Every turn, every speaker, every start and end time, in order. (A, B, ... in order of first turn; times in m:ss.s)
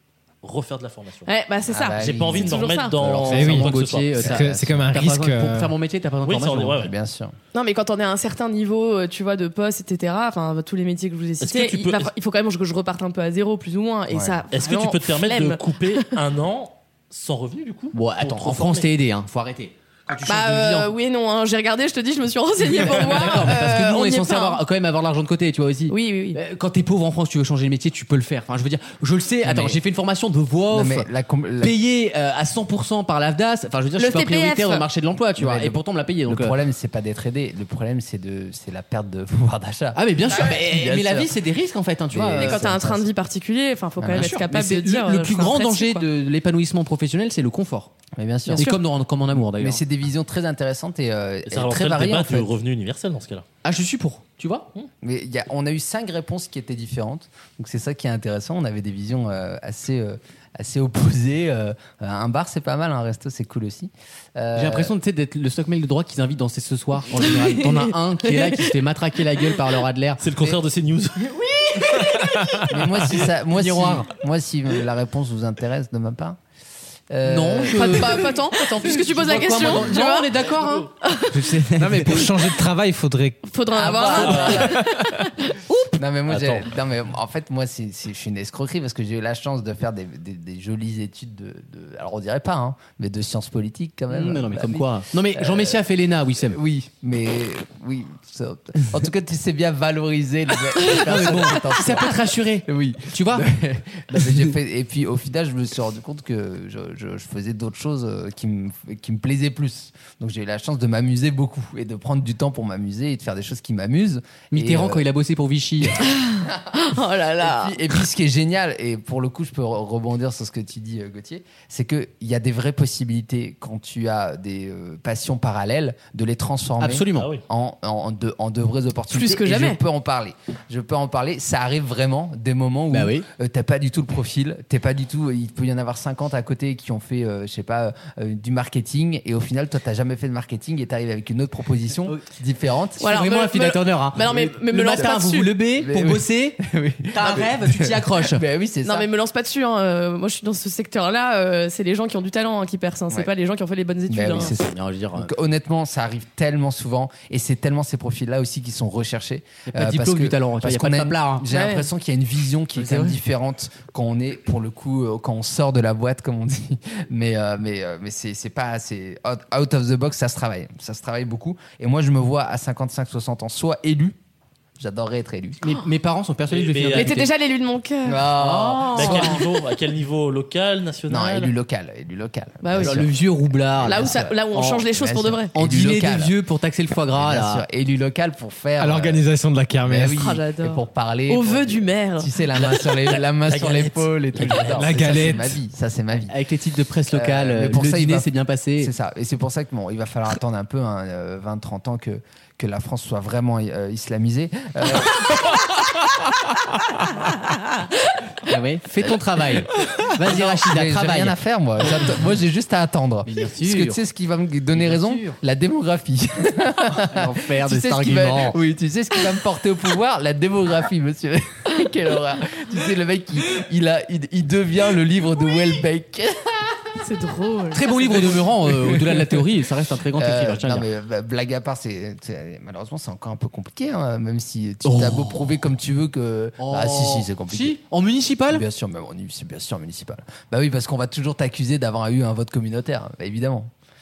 0:00.4-0:01.3 A
0:01.2-0:03.0 B
0:01.7-0:02.6 C
0:01.9-0:04.3 A
0:03.0-0:06.8 D
0:03.3-0:05.7 E
0:04.2-0:04.8 C
0:06.2-0:06.9 A
0:06.8-0:07.3 C
0:07.5-0:16.1 B
0:11.4-0:12.1 A
0:14.1-0:14.4 C
0:14.5-0:18.9 A
0:17.9-0:20.9 D
0:20.2-0:24.6 B
0:22.6-0:31.1 D
0:25.9-0:26.4 B
0:29.4-0:29.8 C
0:30.7-0:31.8 C
0:31.6-0:36.6 D
0:34.0-0:34.9 B
0:35.4-0:41.3 C
0:39.9-0:42.7 D
0:40.3-0:40.6 B
0:42.1-0:43.1 C
0:42.4-0:46.0 B
0:44.0-0:44.3 C
0:44.0-0:47.9 D
0:48.1-0:48.6 C
0:48.5-0:48.8 B
0:48.5-0:49.8 D
0:49.3-0:52.5 C
0:51.5-0:53.4 A
0:53.6-0:54.6 D
0:55.0-1:04.9 C
1:04.5-1:10.2 D
1:10.2-1:11.4 A
1:11.2-1:14.1 D
1:12.2-1:12.6 E
1:12.7-1:16.4 C
1:17.1-1:18.3 C
1:17.2-1:22.6 D
1:17.6-1:20.5 B
1:20.6-1:20.9 A
1:21.0-1:21.4 B
1:21.8-1:23.4 E
1:23.4-1:25.6 B
1:23.7-1:24.8 C
1:24.1-1:24.6 A
1:24.5-1:25.3 E
1:25.9-1:35.8 C
1:34.1-1:36.6 D
1:36.4-1:55.0 C
1:40.9-1:43.5 D
1:44.1-1:44.5 D
1:54.5-1:56.1 D
1:56.1-1:57.8 B
1:56.5-2:23.1 C
2:06.8-2:07.3 D
2:07.1-2:07.4 A
2:09.1-2:09.8 B
2:12.9-2:13.2 D
2:23.0-2:28.4 D
2:23.0-2:25.5 B
2:25.0-2:29.1 C
2:28.8-2:34.5 B
2:34.1-2:54.2 C
2:34.6-2:35.3 D
2:39.7-2:41.4 D
2:41.5-2:41.9 B
2:42.8-2:43.2 D
2:54.8-2:55.6 C
2:55.6-2:57.3 D
2:56.5-2:57.2 A
2:56.9-2:58.2 B
2:58.0-2:59.4 C
2:58.4-2:59.4 D
2:58.9-3:01.5 A
3:01.1-3:03.1 C
3:02.6-3:03.1 B
3:02.8-3:04.8 D
3:03.6-3:04.4 C
3:03.8-3:05.5 B
3:04.9-3:06.4 C
3:05.5-3:07.6 D
3:07.1-3:09.2 C
3:08.8-3:10.2 E
3:09.9-3:16.4 C
3:10.1-3:12.3 B
3:13.5-3:15.1 A
3:14.7-3:15.6 E
3:16.3-3:18.9 D
3:17.1-3:25.5 C
3:28.4-3:31.4 D
3:30.1-3:46.9 C
3:33.2-3:34.0 D
3:34.7-3:35.4 D
3:37.1-3:38.6 D
3:47.0-3:48.4 B
3:47.7-3:50.9 D
3:48.2-3:49.4 C
3:50.1-3:57.8 C
3:54.8-3:55.5 D
3:56.6-3:58.6 D
3:58.5-4:03.7 C